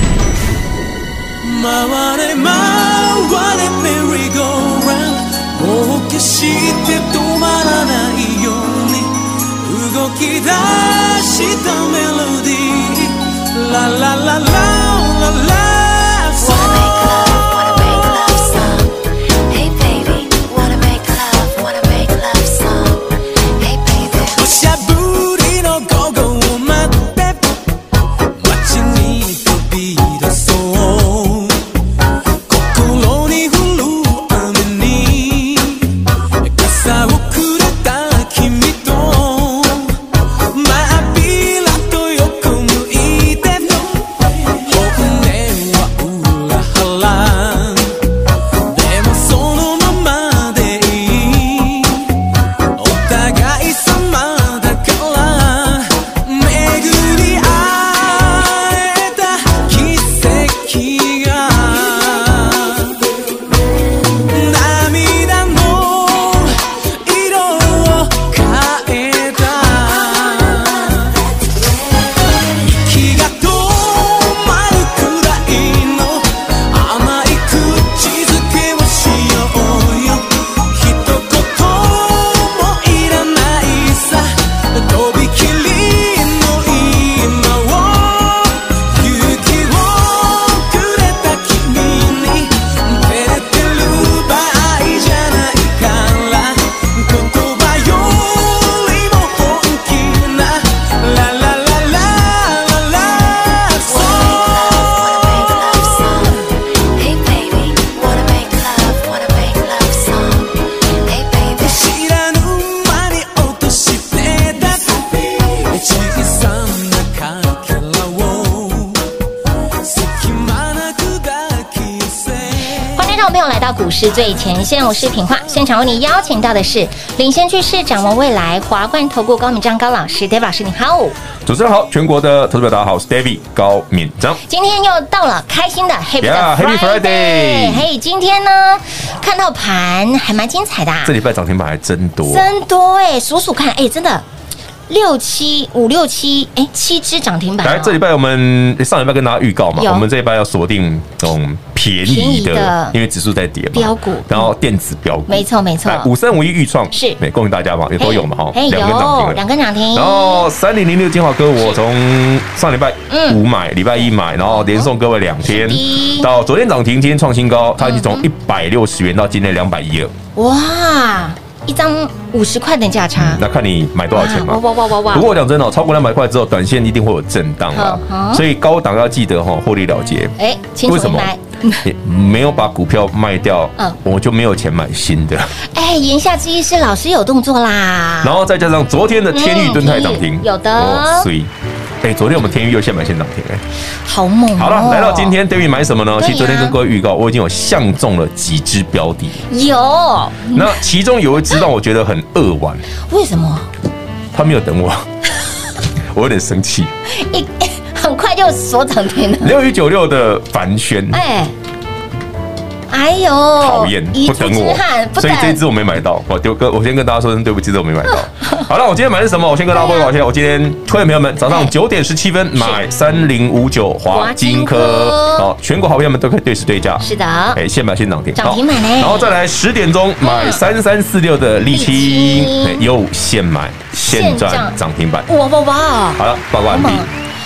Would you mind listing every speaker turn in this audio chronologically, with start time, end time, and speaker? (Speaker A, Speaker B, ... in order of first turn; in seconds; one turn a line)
Speaker A: 1.4-18.6
Speaker B: 16.4-18.9
Speaker B: 19.5-23.0
Speaker B: 23.6-24.4
Speaker A: 24.3-27.6
Speaker A: 28.3-31.7
Speaker A: 32.5-48.0
Speaker A: 48.6-52.2
Speaker A: 52.7-63.1
Speaker A: 64.2-71.2
Speaker A: 72.4-106.3
Speaker B: 103.9-106.3
Speaker B: 107.0-110.5
Speaker B: 111.0-111.9
Speaker A: 111.6-119.0
Speaker A: 119.8-122.8
Speaker C: 122.9-131.1
Speaker D: 131.4-134.4
Speaker C: 134.5-141.1
Speaker D: 136.2-137.9
Speaker D: 141.0-142.5
Speaker C: 142.2-144.2
Speaker C: 144.9-148.0
Speaker D: 147.6-159.4
Speaker C: 149.8-150.1
Speaker C: 152.0-152.9
Speaker C: 153.7-154.5
Speaker C: 155.3-156.1
Speaker C: 156.9-157.2
Speaker C: 158.0-160.5
Speaker D: 159.9-170.1
Speaker C: 163.1-163.4
Speaker C: 164.5-164.9
Speaker C: 165.4-166.3
Speaker C: 167.8-168.2
Speaker C: 170.3-173.4
Speaker D: 173.2-180.3
Speaker C: 174.1-175.3
Speaker C: 177.7-178.4
Speaker C: 180.4-181.8
Speaker D: 180.8-185.5
Speaker C: 185.6-188.4
Speaker D: 188.2-191.5
Speaker C: 189.3-191.3
Speaker D: 192.0-193.6
Speaker C: 194.1-195.3
Speaker D: 194.6-199.4
Speaker C: 196.2-196.8
Speaker C: 199.5-200.8
Speaker D: 200.5-202.8
Speaker C: 203.1-203.7
Speaker D: 204.3-205.1
Speaker D: 206.1-206.9
Speaker C: 207.1-209.6
Speaker D: 209.4-211.2
Speaker C: 211.1-211.5
Speaker C: 212.9-215.6
Speaker D: 213.6-235.3
Speaker C: 219.7-220.1
Speaker C: 222.6-222.8
Speaker C: 224.1-225.5
Speaker C: 227.0-227.6
Speaker C: 228.3-229.3
Speaker C: 230.2-230.6
Speaker C: 231.7-232.8
Speaker C: 233.9-234.7
Speaker C: 235.3-237.1
Speaker D: 236.2-237.1